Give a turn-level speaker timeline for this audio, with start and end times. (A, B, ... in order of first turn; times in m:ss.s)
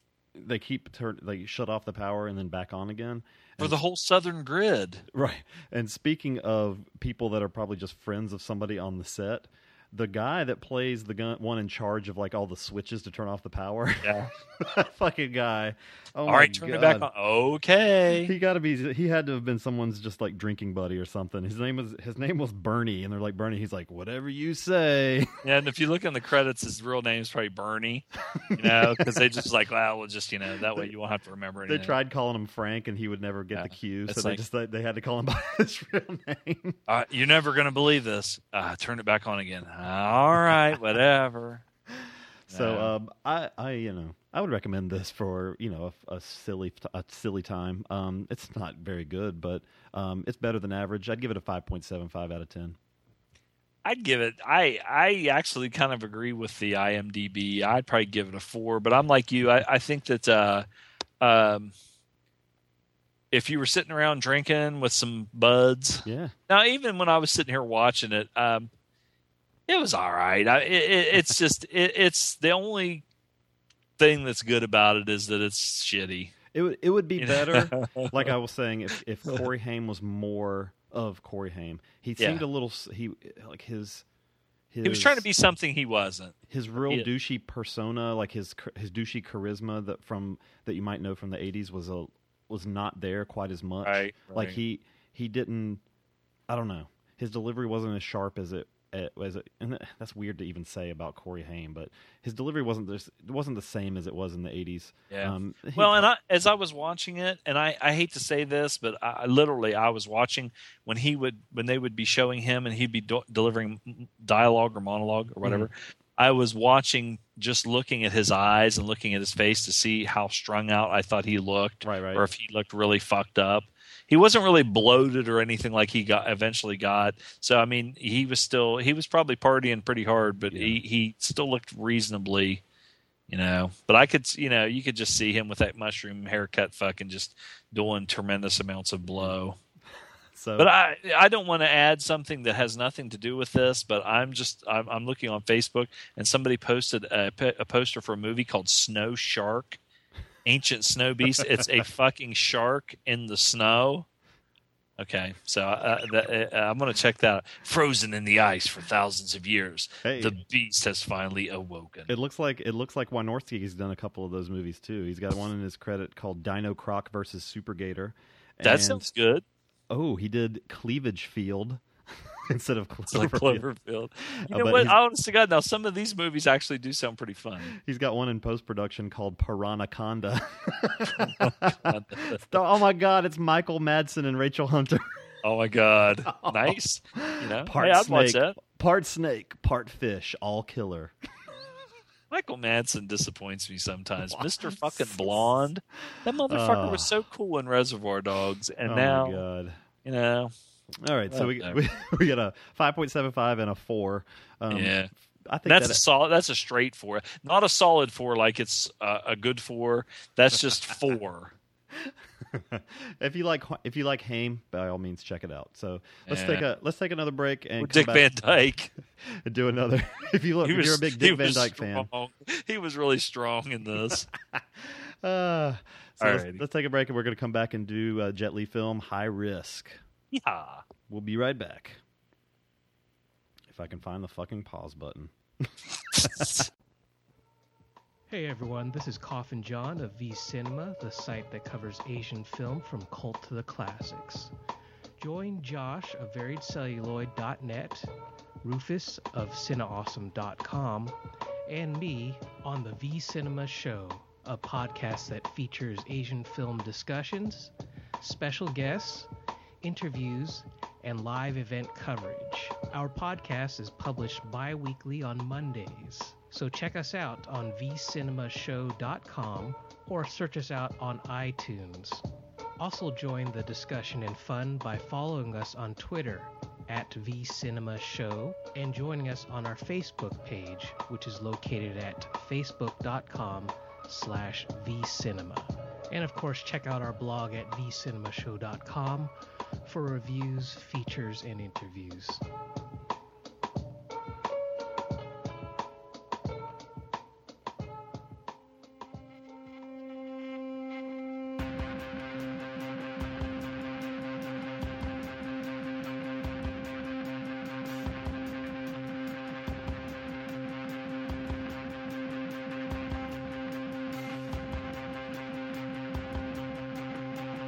0:00.3-0:03.8 A
0:03.6-0:05.0 B
0:05.1-0:17.1 A
0:14.0-0:14.3 B
0:16.2-0:18.3 B
0:18.2-0:25.3 A
0:25.4-0:32.0 B
0:28.4-0:29.2 A
0:31.7-0:36.8 A
0:33.5-0:34.4 B
0:36.9-0:41.6 B
0:42.0-0:52.8 A
0:42.5-0:42.9 B
0:53.8-1:00.7 B
1:01.2-1:01.7 B
1:03.3-1:08.7 B
1:06.0-1:06.3 A
1:09.7-1:13.0 B
1:14.0-1:16.3 B
1:16.5-1:24.0 A
1:17.2-1:18.3 B
1:22.2-1:22.4 B
1:24.7-1:25.2 A
1:24.8-1:27.1 B
1:26.5-1:35.8 A
1:33.8-1:34.6 B
1:36.5-1:46.0 A
1:45.1-2:12.6 B
1:55.4-1:55.7 A
2:01.8-2:02.3 A
2:10.5-2:10.8 A
2:13.3-2:19.6 B
2:19.0-2:19.4 A
2:20.3-2:20.7 A
2:20.6-2:29.8 B
2:30.4-2:34.0 B
2:35.0-2:42.1 B
2:40.0-2:40.4 A
2:42.1-2:49.0 A
2:48.6-2:49.4 B
2:49.9-2:53.6 A
2:53.1-2:57.7 B
2:54.5-2:55.0 A
2:57.7-3:05.2 A
3:01.2-3:02.4 B
3:05.4-3:08.6 B
3:06.3-3:11.1 A
3:12.3-3:19.4 B
3:14.3-3:15.4 A
3:16.5-3:17.2 A
3:18.8-3:19.8 A
3:20.0-3:20.5 B
3:21.0-3:26.0 A
3:21.3-3:21.8 B
3:24.7-3:25.1 B
3:25.6-3:31.5 B
3:31.9-3:38.3 A
3:36.3-3:36.7 B
3:37.8-3:38.9 B
3:39.2-3:42.1 A
3:40.6-3:44.3 B
3:44.5-3:50.0 A
3:46.2-3:46.6 B
3:50.3-3:50.8 B
3:51.1-3:52.0 A
3:53.7-3:56.5 A
3:56.1-3:56.7 B
3:58.3-4:04.5 C
4:05.2-4:08.1 C
4:08.6-4:11.2 C
4:11.7-4:19.3 C
4:19.8-4:32.2 C
4:32.8-4:49.3 C
4:49.8-4:52.4 C